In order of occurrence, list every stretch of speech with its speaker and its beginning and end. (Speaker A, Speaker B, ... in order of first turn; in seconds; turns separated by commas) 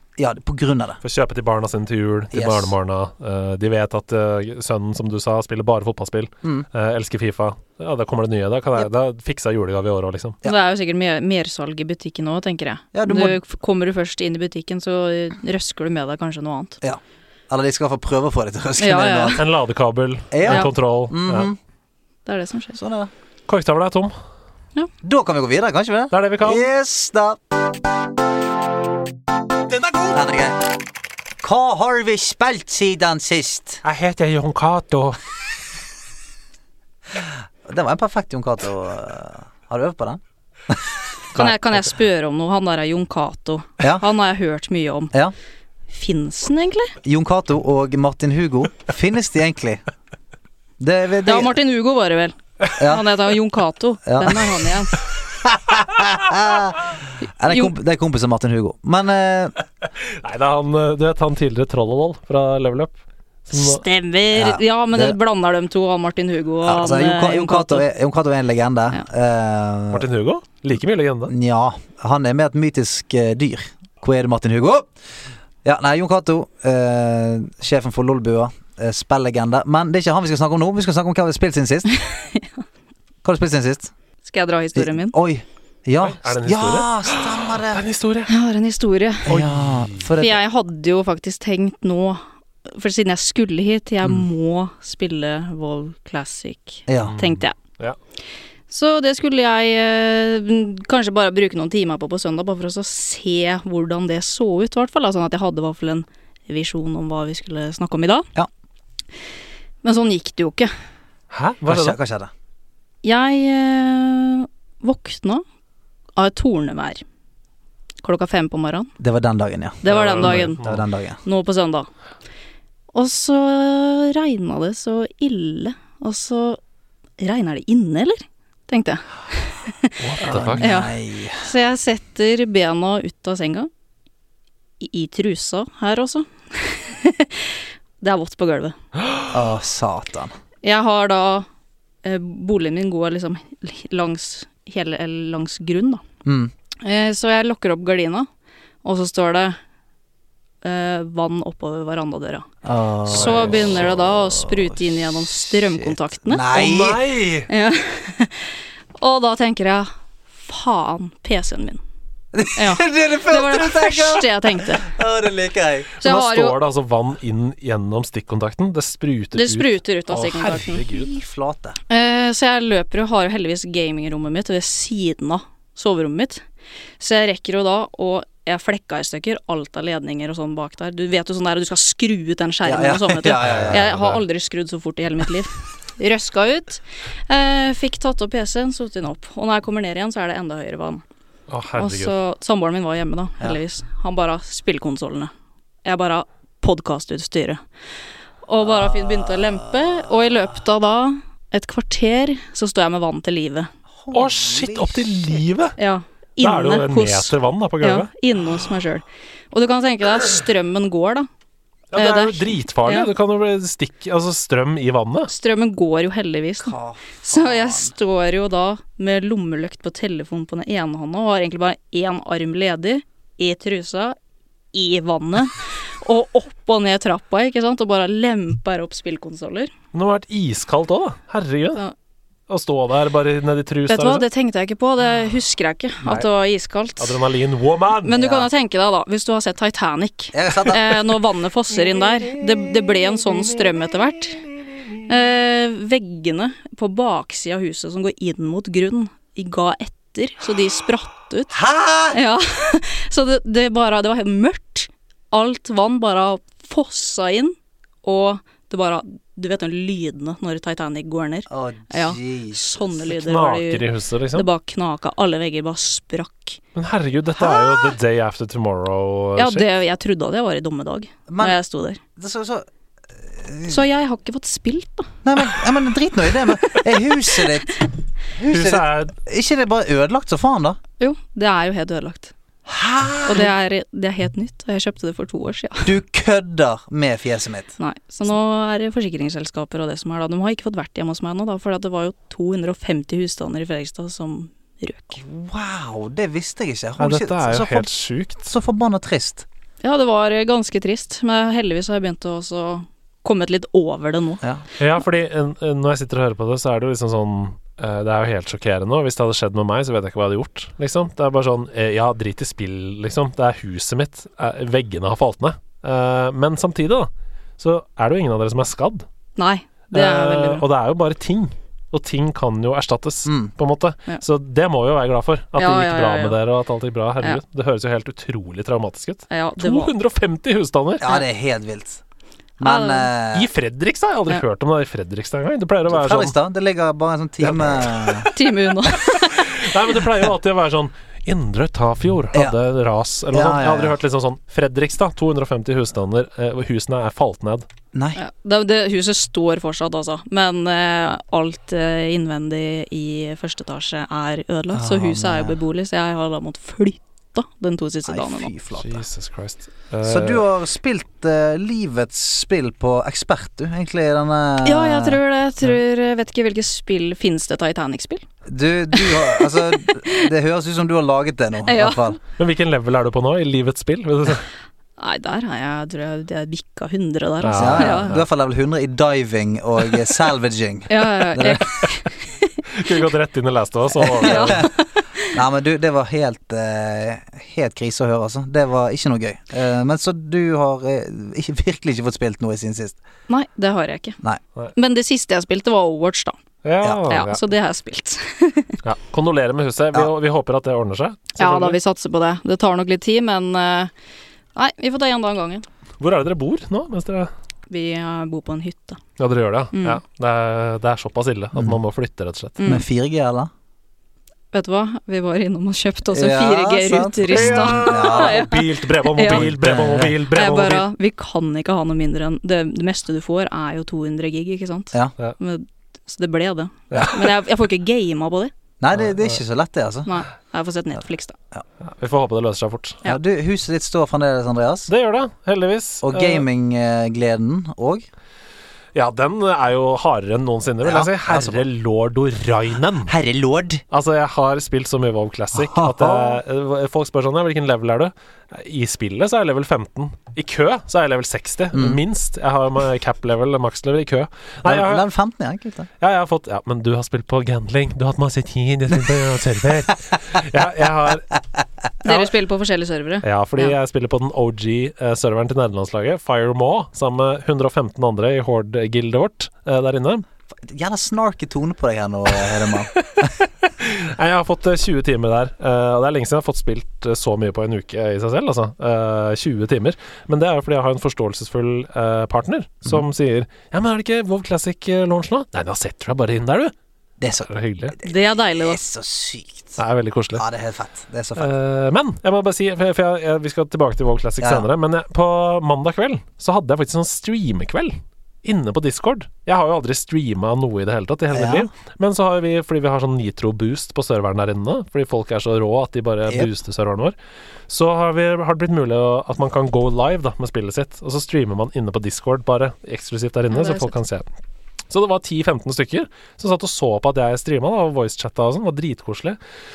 Speaker A: 0.2-1.0, Speaker B: 1.0-10.4, Speaker A: 2.3-2.7, Speaker C: 10.4-16.8, Speaker A: 12.9-13.4, Speaker A: 16.8-19.4, Speaker C: 18.8-19.4, Speaker B: 19.4-21.5, Speaker A: 20.3-21.6, Speaker C: 22.3-22.8, Speaker A: 22.8-23.1, Speaker B: 23.5-24.1, Speaker A: 25.0-27.4, Speaker B: 26.1-26.7, Speaker A: 30.1-30.7, Speaker A: 31.4-33.8, Speaker B: 33.8-35.2, Speaker A: 37.1-40.9, Speaker C: 41.4-45.1, Speaker C: 45.9-47.0, Speaker A: 47.0-49.8, Speaker A: 50.8-51.6, Speaker C: 51.2-55.0, Speaker A: 52.8-53.1, Speaker A: 54.1-54.5, Speaker A: 55.4-59.5, Speaker B: 60.0-63.0, Speaker B: 63.5-63.8, Speaker C: 63.5-67.9, Speaker A: 64.3-65.2, Speaker A: 66.7-70.1, Speaker B: 69.9-71.3, Speaker A: 71.3-74.9, Speaker A: 75.7-81.9, Speaker C: 81.9-82.6, Speaker A: 83.2-83.9, Speaker C: 84.2-85.2, Speaker A: 84.8-87.8, Speaker B: 86.0-88.3, Speaker C: 88.3-89.3, Speaker A: 89.3-90.4, Speaker B: 89.3-90.1, Speaker C: 90.2-97.6, Speaker A: 96.9-97.2, Speaker B: 97.0-98.0, Speaker C: 98.7-108.3, Speaker C: 109.8-110.7, Speaker B: 111.3-112.0, Speaker A: 111.7-112.3, Speaker C: 113.0-115.4, Speaker C: 116.2-117.0, Speaker C: 118.0-118.9, Speaker A: 119.0-121.2, Speaker C: 119.8-120.6, Speaker B: 119.8-120.8, Speaker C: 121.2-121.9, Speaker C: 122.9-126.6, Speaker C: 127.2-133.7, Speaker B: 130.0-130.7, Speaker A: 130.2-131.5, Speaker C: 134.8-138.8, Speaker A: 139.3-140.3, Speaker C: 140.6-141.5, Speaker C: 142.0-146.0, Speaker A: 146.2-146.5, Speaker C: 146.8-148.3, Speaker C: 148.8-149.6, Speaker C: 150.6-152.5, Speaker A: 152.6-154.8, Speaker C: 153.1-156.5, Speaker B: 153.2-153.9, Speaker A: 155.3-157.0, Speaker B: 156.5-157.5, Speaker C: 157.5-161.8, Speaker A: 162.3-166.0, Speaker C: 162.6-164.9, Speaker C: 166.0-166.6, Speaker B: 166.0-171.1, Speaker C: 169.3-170.8, Speaker A: 170.5-171.8, Speaker C: 171.9-176.4, Speaker C: 177.0-191.0, Speaker A: 182.7-183.8, Speaker B: 183.4-184.2, Speaker B: 191.5-192.2, Speaker C: 191.8-195.3, Speaker C: 195.8-197.6, Speaker C: 198.4-203.7, Speaker A: 198.6-200.1, Speaker A: 204.0-205.4, Speaker B: 204.1-205.8, Speaker C: 205.8-211.3, Speaker B: 206.4-208.1, Speaker B: 211.9-215.3, Speaker C: 212.0-213.1, Speaker C: 215.3-224.2, Speaker A: 216.6-217.9, Speaker C: 224.7-229.7, Speaker B: 229.9-231.8, Speaker B: 232.5-234.2, Speaker C: 233.9-237.2, Speaker B: 237.0-238.2, Speaker C: 238.0-244.4, Speaker A: 238.1-238.5, Speaker A: 240.3-241.0, Speaker C: 245.0-251.6, Speaker A: 251.5-252.2, Speaker C: 252.1-266.6, Speaker A: 261.5-262.8, Speaker B: 263.1-264.5, Speaker B: 266.8-269.6, Speaker C: 267.4-267.8, Speaker C: 269.4-272.0, Speaker A: 271.3-271.6, Speaker A: 272.2-272.6, Speaker A: 273.2-273.8, Speaker C: 273.7-275.1, Speaker A: 275.2-280.8, Speaker B: 278.4-279.1, Speaker C: 281.0-282.3, Speaker A: 282.7-283.5, Speaker C: 283.3-285.9, Speaker A: 285.9-287.7, Speaker C: 287.8-295.2, Speaker A: 295.2-297.9, Speaker B: 297.0-298.5, Speaker A: 298.5-299.5, Speaker C: 299.8-304.4, Speaker B: 304.8-319.1, Speaker C: 319.4-320.6, Speaker B: 319.9-331.0, Speaker A: 323.3-323.5, Speaker C: 325.6-326.4, Speaker C: 329.3-329.9, Speaker A: 331.0-332.0, Speaker A: 332.6-333.5, Speaker C: 332.6-333.1, Speaker B: 333.3-336.3, Speaker A: 335.9-338.3, Speaker B: 337.4-338.3, Speaker C: 338.3-339.7, Speaker B: 338.9-347.7, Speaker A: 343.3-344.0, Speaker A: 347.9-348.2, Speaker C: 348.2-358.5, Speaker A: 354.7-355.6, Speaker A: 358.1-359.0, Speaker B: 358.8-360.4, Speaker A: 360.0-365.2, Speaker C: 364.6-368.2, Speaker A: 368.5-372.2, Speaker C: 368.9-370.3, Speaker C: 371.6-372.1, Speaker B: 372.4-374.5, Speaker C: 375.0-378.2, Speaker B: 377.4-378.2, Speaker A: 377.6-381.6, Speaker C: 380.9-382.1, Speaker B: 382.7-384.7, Speaker A: 384.0-384.7, Speaker C: 384.2-385.3, Speaker A: 385.3-393.0, Speaker C: 393.3-394.2, Speaker C: 394.8-396.4, Speaker B: 396.6-397.4, Speaker C: 397.1-398.8, Speaker B: 398.8-401.8, Speaker C: 401.4-403.9, Speaker C: 404.5-405.7, Speaker B: 406.0-407.3, Speaker C: 407.7-409.0, Speaker B: 409.2-412.6, Speaker C: 409.7-410.0, Speaker C: 412.6-412.9, Speaker A: 412.7-413.5, Speaker C: 414.5-419.5, Speaker A: 416.1-418.5, Speaker B: 417.3-420.9, Speaker A: 419.3-420.1, Speaker C: 420.3-428.5, Speaker B: 426.9-427.3, Speaker A: 428.8-430.1, Speaker C: 430.1-431.4, Speaker B: 432.0-433.0, Speaker A: 433.0-434.9, Speaker B: 434.9-436.4, Speaker A: 436.0-438.1, Speaker B: 438.9-443.1, Speaker A: 440.8-441.6, Speaker A: 443.1-443.8, Speaker B: 443.9-455.1, Speaker A: 445.6-446.4, Speaker A: 451.7-452.0, Speaker A: 454.6-455.9, Speaker B: 456.0-461.3, Speaker C: 462.0-463.7, Speaker B: 463.2-470.2, Speaker A: 470.6-473.3, Speaker B: 472.7-486.7, Speaker A: 487.2-489.8, Speaker B: 487.5-487.9, Speaker C: 488.0-488.8, Speaker B: 489.8-490.4, Speaker A: 490.4-491.5, Speaker B: 491.4-507.1, Speaker A: 494.4-494.7, Speaker A: 501.3-501.7, Speaker B: 507.7-514.3, Speaker C: 513.5-514.0, Speaker B: 514.9-519.4